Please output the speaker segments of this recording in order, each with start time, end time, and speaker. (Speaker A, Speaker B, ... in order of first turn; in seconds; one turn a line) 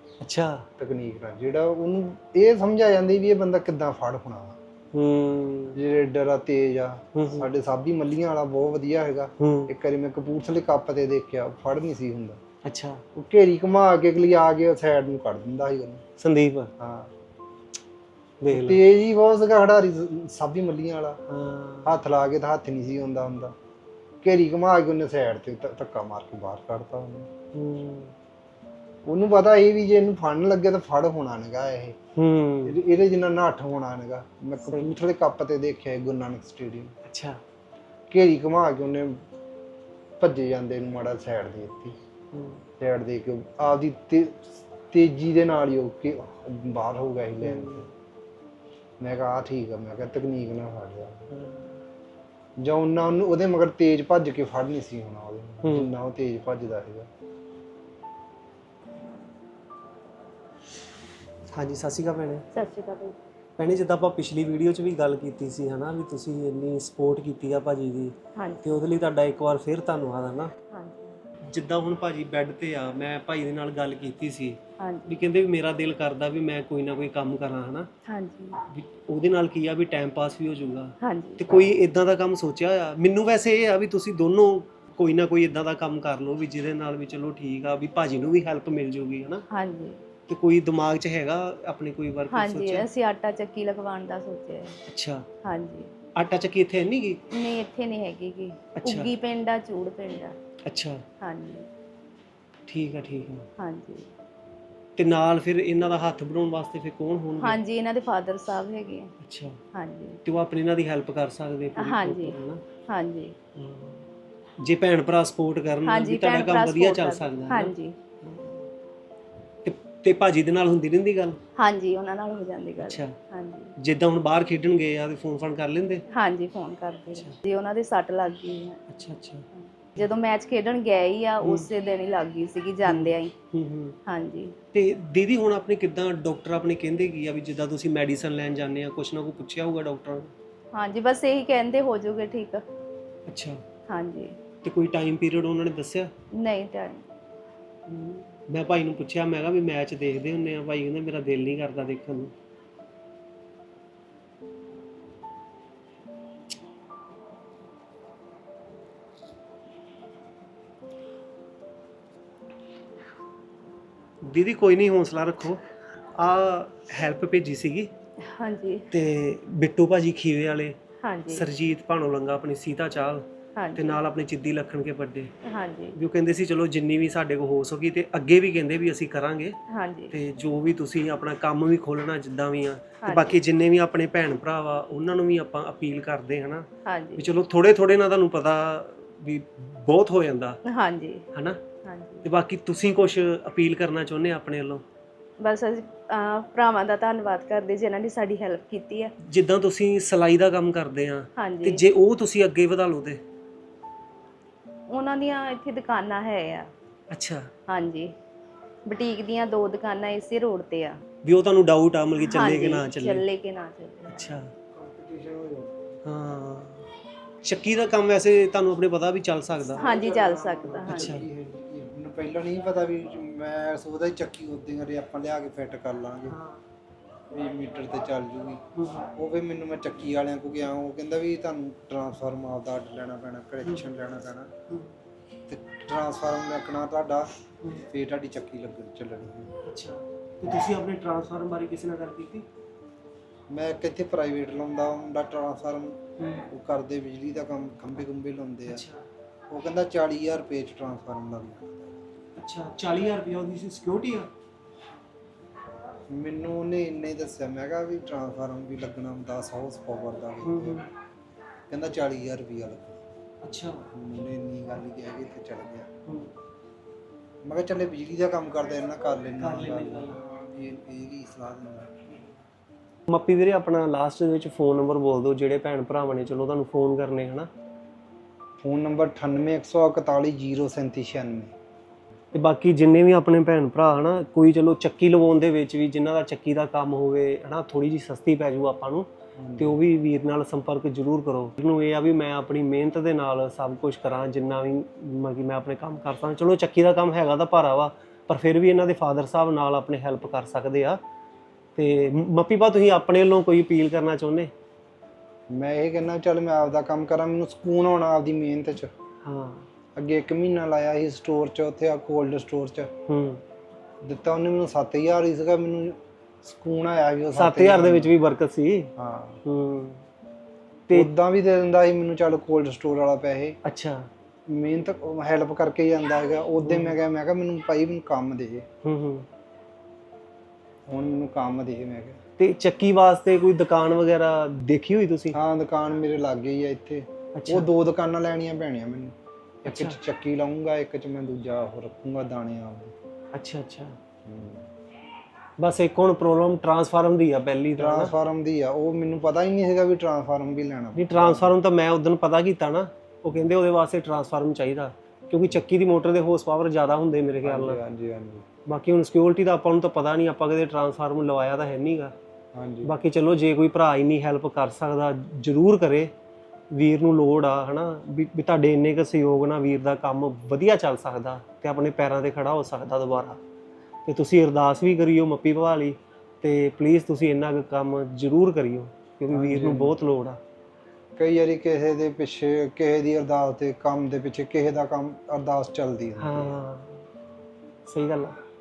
Speaker A: 0.2-0.7
Speaker B: 0.8-4.6
Speaker A: 4.9-5.8
Speaker B: 5.7-12.4
Speaker A: 7.1-7.5
Speaker A: 9.4-9.7
Speaker A: 12.6-13.0
Speaker B: 13.1-16.0
Speaker A: 16.2-16.7
Speaker B: 16.8-17.1
Speaker A: 18.4-18.8
Speaker B: 18.5-21.2
Speaker A: 21.3-22.0
Speaker B: 21.8-23.5
Speaker B: 24.2-27.3
Speaker A: 27.5-28.1
Speaker B: 29.1-31.9
Speaker A: 32.1-32.8
Speaker B: 32.6-36.9
Speaker A: 34.6-34.9
Speaker A: 37.0-37.4
Speaker B: 38.1-39.2
Speaker B: 40.2-41.9
Speaker A: 42.3-42.6
Speaker B: 42.8-47.9
Speaker A: 47.4-47.9
Speaker B: 49.0-51.3
Speaker A: 51.3-51.8
Speaker B: 52.6-57.1
Speaker A: 55.6-55.9
Speaker A: 61.5-62.4
Speaker C: 62.5-63.1
Speaker A: 63.6-70.5
Speaker C: 68.3-68.6
Speaker C: 70.7-71.2
Speaker A: 71.5-77.9
Speaker C: 74.8-75.1
Speaker C: 78.0-78.6
Speaker A: 78.6-89.4
Speaker C: 81.0-81.4
Speaker C: 89.5-90.0
Speaker A: 90.3-92.9
Speaker C: 92.3-94.8
Speaker A: 94.8-95.2
Speaker C: 95.4-95.9
Speaker A: 96.1-97.2
Speaker C: 97.3-100.3
Speaker A: 98.8-99.1
Speaker A: 100.6-101.0
Speaker C: 101.2-101.7
Speaker A: 102.7-103.4
Speaker C: 103.6-104.1
Speaker A: 105.0-107.6
Speaker C: 107.4-109.1
Speaker A: 109.2-109.6
Speaker C: 109.7-110.2
Speaker A: 110.2-112.6
Speaker C: 111.8-113.3
Speaker A: 113.5-114.0
Speaker A: 114.6-118.6
Speaker C: 115.8-118.0
Speaker A: 119.6-121.4
Speaker C: 121.5-123.8
Speaker A: 122.8-123.1
Speaker A: 123.8-126.0
Speaker C: 126.1-128.8
Speaker A: 128.9-129.4
Speaker C: 129.6-133.3
Speaker A: 131.4-131.7
Speaker A: 132.8-133.9
Speaker C: 134.1-134.5
Speaker A: 134.7-140.3
Speaker C: 140.7-142.6
Speaker A: 143.3-143.6
Speaker C: 143.9-144.3
Speaker A: 144.6-146.1
Speaker C: 146.4-147.0
Speaker A: 147.9-152.3
Speaker A: 164.2-165.6
Speaker A: 166.1-167.9
Speaker C: 168.2-168.9
Speaker A: 168.9-170.8
Speaker C: 171.0-171.5
Speaker A: 171.3-175.3
Speaker C: 173.6-174.0
Speaker C: 175.4-176.0
Speaker A: 175.9-179.6
Speaker C: 179.7-180.1
Speaker A: 180.1-190.6
Speaker C: 183.0-183.4
Speaker C: 186.8-187.3
Speaker C: 190.7-191.2
Speaker A: 191.3-191.6
Speaker C: 191.8-192.3
Speaker A: 192.2-194.8
Speaker C: 195.4-199.1
Speaker A: 199.2-203.2
Speaker C: 201.3-201.8
Speaker C: 204.9-206.7
Speaker A: 207.1-207.5
Speaker C: 207.7-208.1
Speaker C: 208.8-211.0
Speaker A: 211.2-213.2
Speaker C: 212.2-214.4
Speaker A: 214.1-214.5
Speaker B: 214.7-216.0
Speaker A: 216.0-216.9
Speaker A: 217.4-219.8
Speaker C: 219.7-221.2
Speaker B: 219.7-226.4
Speaker A: 220.8-221.3
Speaker A: 226.3-226.6
Speaker B: 227.3-234.5
Speaker A: 228.8-229.1
Speaker B: 235.5-237.3
Speaker B: 237.9-239.5
Speaker A: 239.6-242.4
Speaker B: 243.5-248.8
Speaker A: 246.2-246.4
Speaker A: 248.7-249.0
Speaker B: 249.5-252.0
Speaker A: 252.4-254.3
Speaker B: 256.1-260.8
Speaker A: 260.4-260.9
Speaker B: 261.7-263.0
Speaker A: 263.4-263.9
Speaker B: 263.9-265.9
Speaker A: 266.1-266.3
Speaker B: 267.4-271.9
Speaker A: 269.4-270.2
Speaker A: 273.1-277.5
Speaker B: 278.6-281.5
Speaker A: 282.3-301.0
Speaker B: 289.4-289.8
Speaker A: 301.8-304.5
Speaker B: 305.5-308.9
Speaker A: 309.2-309.6
Speaker B: 309.9-312.9
Speaker A: 313.1-313.4
Speaker B: 314.0-318.1
Speaker A: 317.3-318.9
Speaker B: 318.9-319.4
Speaker A: 319.4-320.0
Speaker B: 320.9-323.6
Speaker A: 323.6-324.1
Speaker B: 324.5-328.6
Speaker A: 326.6-326.9
Speaker A: 328.8-329.3
Speaker B: 330.9-332.2
Speaker A: 332.4-335.4
Speaker B: 335.3-342.9
Speaker A: 337.3-337.7
Speaker A: 339.6-340.0
Speaker A: 343.3-344.0
Speaker B: 344.2-344.6
Speaker A: 345.6-348.1
Speaker B: 347.8-351.5
Speaker A: 350.9-357.8
Speaker B: 357.4-358.4
Speaker A: 358.6-362.1
Speaker B: 362.5-362.9
Speaker A: 362.8-366.1
Speaker A: 366.7-373.4
Speaker A: 374.0-380.4
Speaker B: 379.3-380.0
Speaker B: 381.1-386.6
Speaker A: 386.2-387.0
Speaker A: 387.9-388.4